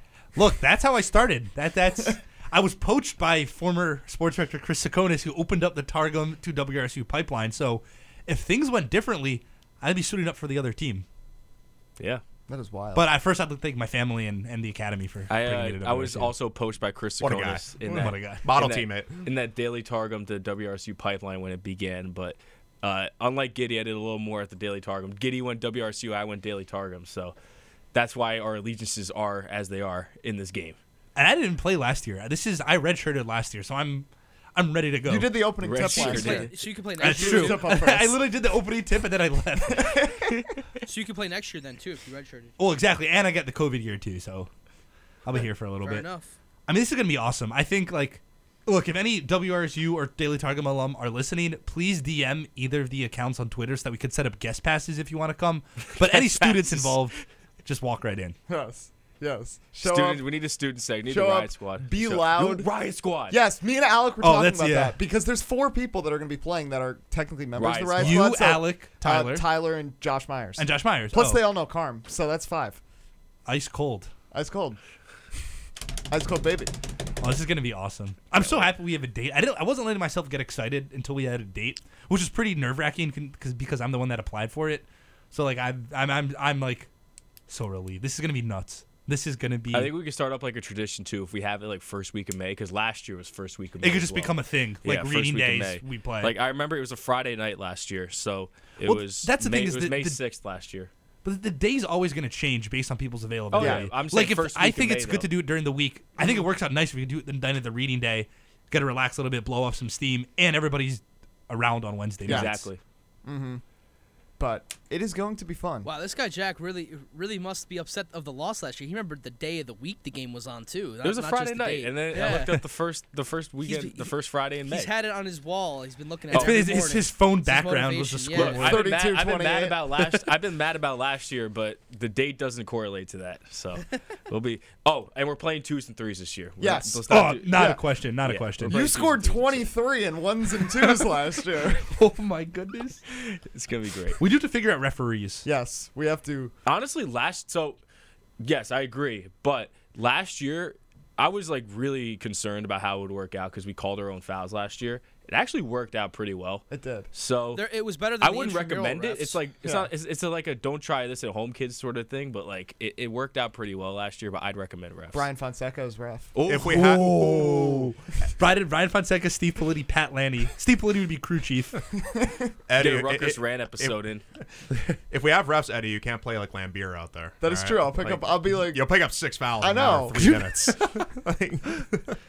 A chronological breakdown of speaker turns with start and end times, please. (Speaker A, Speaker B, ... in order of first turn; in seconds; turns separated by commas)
Speaker A: 0.3-11.0, Speaker B: 12.0-12.2, Speaker C: 12.5-13.1, Speaker A: 12.9-16.3, Speaker B: 15.3-27.4, Speaker D: 17.2-19.1, Speaker A: 17.9-18.4, Speaker B: 27.9-30.8, Speaker A: 31.1-35.4, Speaker C: 35.0-38.2, Speaker B: 35.6-36.5, Speaker E: 35.8-37.7, Speaker A: 35.9-40.3, Speaker C: 39.7-40.3, Speaker E: 40.9-42.5, Speaker A: 42.6-44.5, Speaker A: 45.2-46.1, Speaker E: 45.8-46.4, Speaker A: 46.6-58.4, Speaker B: 56.0-57.0, Speaker C: 58.5-60.3, Speaker B: 59.8-63.4, Speaker C: 61.1-62.7, Speaker C: 63.2-72.8, Speaker A: 64.2-65.0, Speaker B: 67.6-68.2, Speaker A: 68.0-69.5, Speaker A: 70.6-71.4, Speaker A: 73.5-74.1, Speaker C: 74.3-74.8, Speaker C: 76.1-76.7, Speaker A: 77.2-86.9, Speaker A: 87.5-89.9, Speaker B: 89.7-100.9, Speaker A: 93.8-96.3, Speaker A: 98.8-100.2, Speaker A: 101.2-112.7, Speaker B: 103.5-105.3, Speaker C: 103.5-103.9, Speaker C: 112.2-113.6, Speaker B: 112.3-112.8, Speaker C: 114.4-115.9, Speaker E: 115.8-122.6, Speaker B: 121.0-124.9, Speaker E: 123.6-128.7, Speaker B: 126.3-126.6, Speaker A: 126.3-128.9, Speaker B: 128.3-139.7, Speaker C: 128.6-129.8, Speaker C: 136.6-137.8, Speaker A: 137.1-139.0, Speaker C: 138.7-141.9, Speaker A: 141.8-143.0, Speaker B: 143.2-144.2, Speaker A: 144.2-145.4, Speaker C: 145.4-146.5, Speaker B: 146.7-147.8, Speaker B: 148.4-157.6, Speaker C: 156.7-157.1, Speaker E: 157.5-159.4, Speaker B: 158.2-165.3, Speaker C: 165.1-166.3, Speaker B: 166.3-166.9, Speaker D: 166.4-167.7, Speaker A: 166.6-171.8, Speaker C: 167.5-167.8, Speaker C: 171.9-172.5, Speaker D: 172.7-182.2, Speaker B: 172.8-174.2, Speaker C: 177.4-178.9, Speaker C: 179.6-180.7